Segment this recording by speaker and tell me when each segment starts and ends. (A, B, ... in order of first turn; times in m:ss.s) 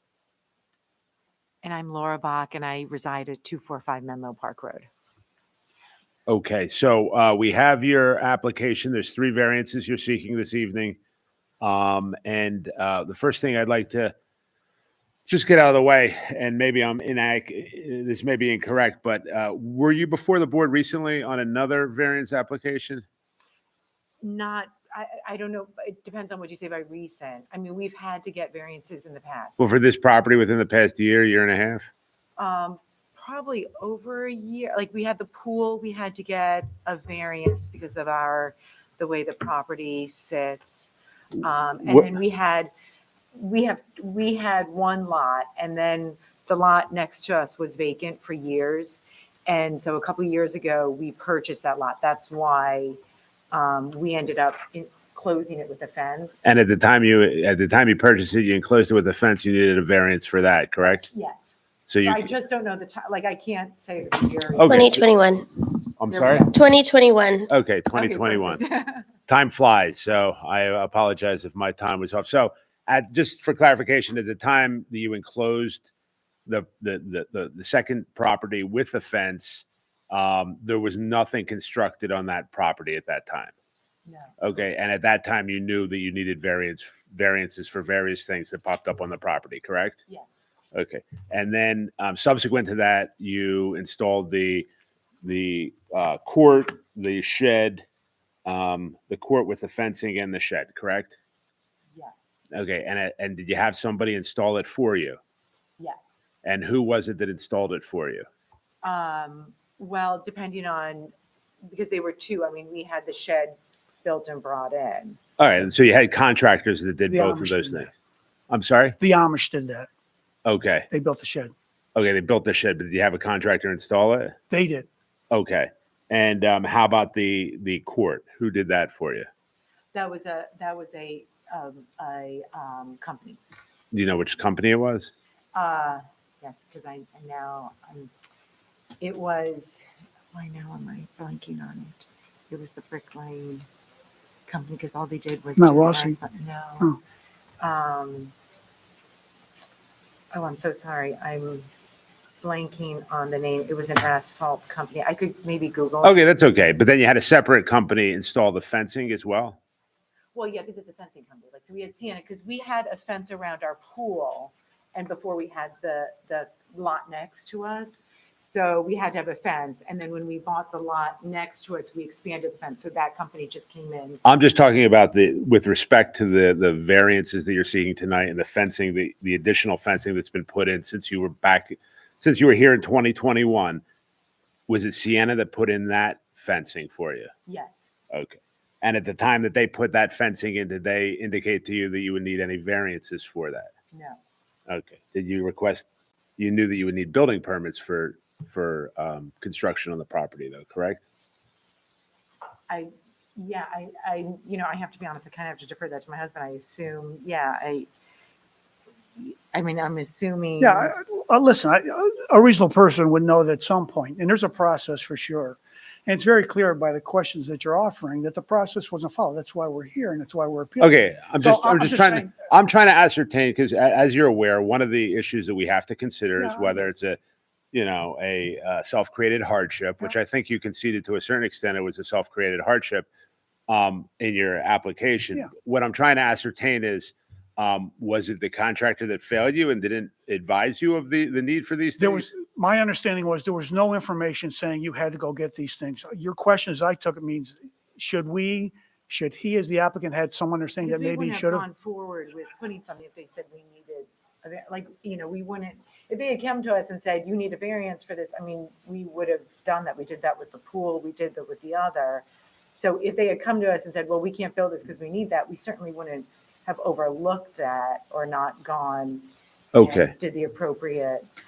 0:01.6-0:04.9 A
0:06.3-0:11.0 B
0:11.6-0:14.1 B
0:15.3-0:23.0 B
0:24.2-0:29.6 A
0:29.6-0:31.9 B
0:32.4-0:42.7 A
0:43.3-0:53.0 A
0:53.5-0:56.4 A
0:56.4-1:01.0 B
1:00.8-1:01.5 A
1:01.9-1:02.3 B
1:02.0-1:05.0 A
1:04.6-1:05.0 B
1:04.6-1:05.8 C
1:06.0-1:06.5 B
1:06.1-1:06.5 A
1:06.5-1:07.5 C
1:07.5-1:08.6 B
1:07.9-1:09.0 A
1:09.3-1:15.9 B
1:16.4-1:23.5 B
1:24.0-1:24.3 A
1:24.4-1:30.0 B
1:30.1-1:30.4 A
1:30.7-1:34.7 B
1:35.2-1:37.8 B
1:38.4-1:41.1 B
1:41.9-1:42.3 A
1:42.5-1:45.2 B
1:45.8-1:46.1 A
1:46.4-1:48.2 B
1:48.8-1:51.1 A
1:51.7-1:55.2 A
1:55.4-1:57.9 B
1:57.1-1:57.9 D
1:58.5-1:59.0 B
1:59.0-1:59.9 D
2:00.4-2:00.9 B
2:00.9-2:01.5 D
2:01.9-2:04.3 B
2:04.5-2:04.9 D
2:05.3-2:09.3 B
2:09.9-2:13.4 A
2:13.9-2:15.1 B
2:15.5-2:18.1 A
2:19.0-2:19.8 A
2:20.3-2:23.6 A
2:24.5-2:26.9 A
2:25.6-2:26.2 D
2:27.6-2:28.3 A
2:30.3-2:31.6 A
2:32.4-2:36.2 A
2:36.0-2:39.6 B
2:40.3-2:54.2 A
2:54.2-3:03.8 B
3:04.7-3:07.3 B
3:07.5-3:07.8 A
3:08.1-3:13.7 B
3:13.9-3:14.2 A
3:14.7-3:15.8 B
3:16.4-3:21.0 B
3:22.7-3:27.9 A
3:29.2-3:30.9 A
3:30.6-3:42.3 D
3:40.8-3:47.2 B
3:46.4-3:46.8 D
3:47.7-3:53.1 B
3:53.7-4:02.3 B
4:02.0-4:11.6 D
4:10.8-4:22.2 A
4:22.7-4:31.2 A
4:29.7-4:30.1 B